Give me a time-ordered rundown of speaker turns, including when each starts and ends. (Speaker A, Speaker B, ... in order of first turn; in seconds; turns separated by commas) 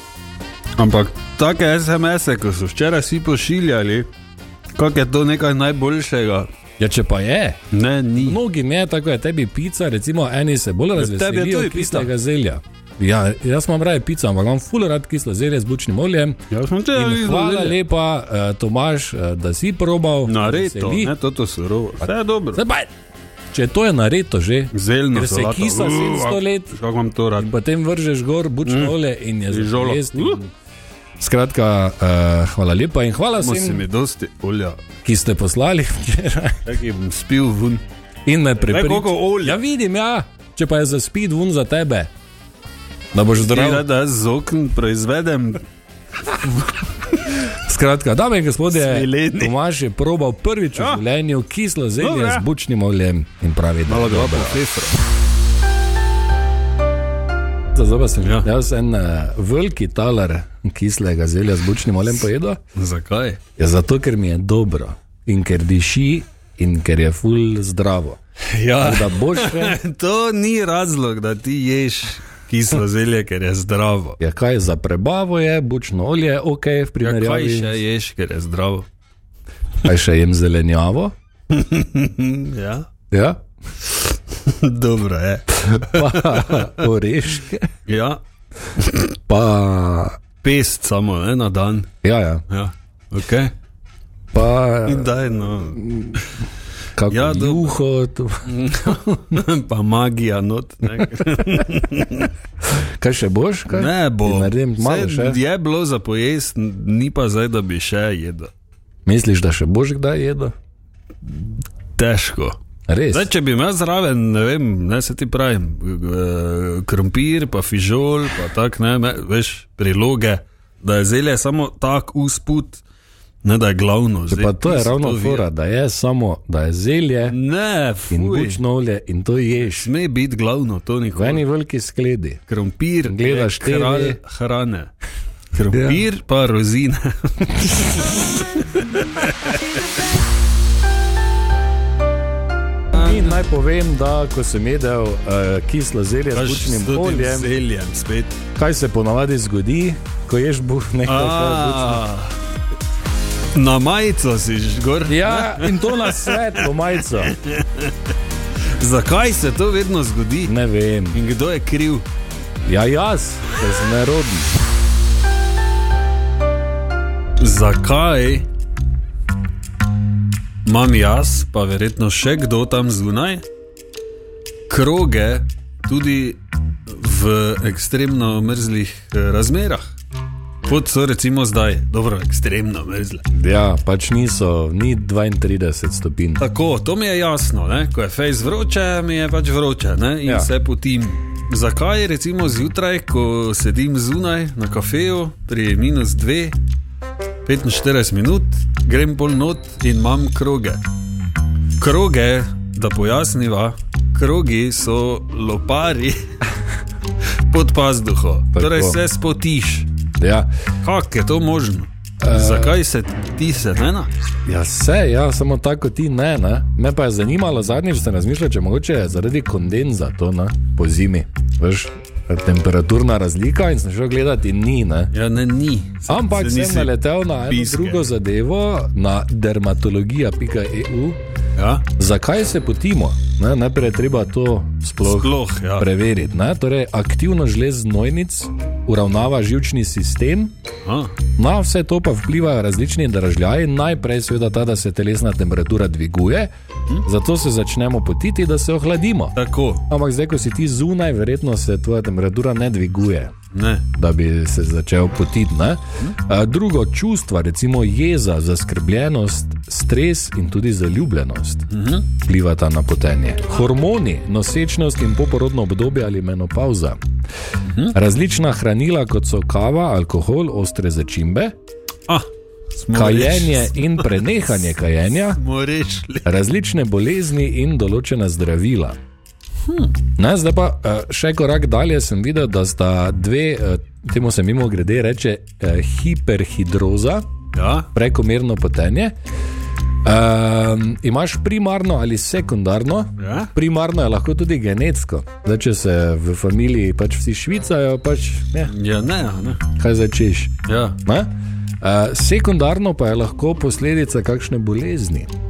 Speaker A: 0.8-4.1, Speaker A: 4.8-6.5, Speaker B: 6.8-7.6, Speaker A: 7.7-8.4, Speaker B: 8.2-21.1, Speaker A: 10.9-12.1, Speaker A: 16.5-17.8, Speaker A: 20.2-22.6, Speaker B: 22.5-22.9, Speaker B: 23.5-26.7, Speaker A: 24.7-27.5, Speaker B: 27.4-30.5, Speaker A: 28.6-28.9, Speaker A: 29.5-30.4, Speaker B: 31.2-33.8, Speaker A: 33.4-34.8, Speaker B: 35.0-36.6, Speaker A: 36.6-37.8, Speaker B: 38.2-42.1, Speaker A: 38.6-39.6, Speaker B: 43.1-43.8, Speaker A: 43.4-45.6, Speaker A: 46.3-47.2, Speaker B: 47.5-54.6, Speaker A: 48.7-49.5, Speaker A: 50.7-51.0, Speaker A: 52.0-52.4, Speaker A: 53.9-55.0, Speaker B: 57.7-62.6, Speaker A: 58.2-58.5, Speaker A: 62.7-63.4, Speaker B: 63.6-68.2, Speaker A: 68.5-74.2, Speaker B: 68.8-69.8, Speaker B: 74.2-77.8, Speaker A: 77.0-78.8, Speaker B: 79.8-81.1, Speaker A: 81.5-82.9, Speaker B: 83.1-83.4, Speaker A: 83.9-86.8, Speaker B: 85.6-87.7, Speaker A: 87.9-88.2, Speaker A: 88.8-89.1, Speaker B: 89.3-90.2, Speaker A: 90.4-91.9, Speaker B: 92.0-92.4, Speaker A: 92.5-93.5, Speaker B: 94.3-95.1, Speaker A: 94.8-96.2, Speaker B: 95.7-96.2, Speaker B: 97.0-98.5, Speaker A: 97.1-97.8, Speaker A: 98.5-102.3, Speaker B: 101.0-101.6, Speaker B: 102.7-105.4, Speaker A: 103.7-108.5, Speaker B: 109.0-110.5, Speaker A: 111.3-112.6, Speaker B: 112.9-113.3, Speaker A: 113.1-122.8, Speaker A: 123.4-125.5, Speaker B: 124.3-127.4, Speaker A: 127.3-128.6, Speaker B: 128.1-129.9, Speaker A: 129.7-131.4, Speaker B: 131.1-132.4, Speaker A: 132.5-134.9, Speaker B: 133.0-134.2, Speaker A: 135.5-140.1, Speaker B: 135.7-136.0, Speaker B: 142.9-147.5, Speaker A: 142.9-143.3, Speaker A: 146.3-148.4, Speaker B: 148.6-152.0, Speaker A: 151.1-152.3, Speaker A: 153.5-156.7, Speaker B: 155.1-157.3, Speaker A: 157.2-157.9, Speaker A: 158.8-160.5, Speaker B: 160.4-161.2, Speaker A: 161.1-162.0, Speaker B: 162.6-164.6, Speaker A: 167.4-168.5, Speaker A: 170.6-173.4, Speaker A: 174.7-179.9, Speaker A: 180.6-183.2, Speaker B: 183.3-186.4, Speaker A: 186.4-196.6, Speaker A: 197.4-200.8, Speaker A: 201.8-206.3, Speaker A: 207.5-209.9, Speaker B: 208.5-209.0, Speaker B: 210.2-210.5, Speaker A: 210.8-214.1, Speaker B: 212.2-212.7, Speaker B: 214.4-225.1, Speaker A: 225.1-226.9, Speaker B: 226.1-231.2, Speaker A: 227.5-228.0, Speaker A: 231.6-231.8, Speaker B: 231.9-240.5, Speaker A: 235.0-235.9, Speaker A: 240.8-241.1, Speaker B: 241.3-246.5, Speaker B: 247.0-249.3, Speaker A: 249.3-249.8, Speaker B: 249.9-253.3, Speaker A: 253.5-253.8, Speaker B: 253.9-267.0, Speaker A: 261.7-262.1, Speaker A: 267.6-267.9, Speaker B: 267.9-271.5, Speaker A: 272.1-274.2, Speaker B: 272.9-275.4, Speaker A: 275.4-276.3, Speaker B: 276.2-279.0, Speaker A: 279.6-279.9, Speaker B: 280.2-287.3, Speaker A: 287.5-287.9, Speaker B: 287.9-289.1, Speaker B: 290.0-298.7, Speaker A: 293.2-293.5, Speaker A: 298.7-299.6, Speaker B: 299.8-305.3, Speaker A: 300.7-301.0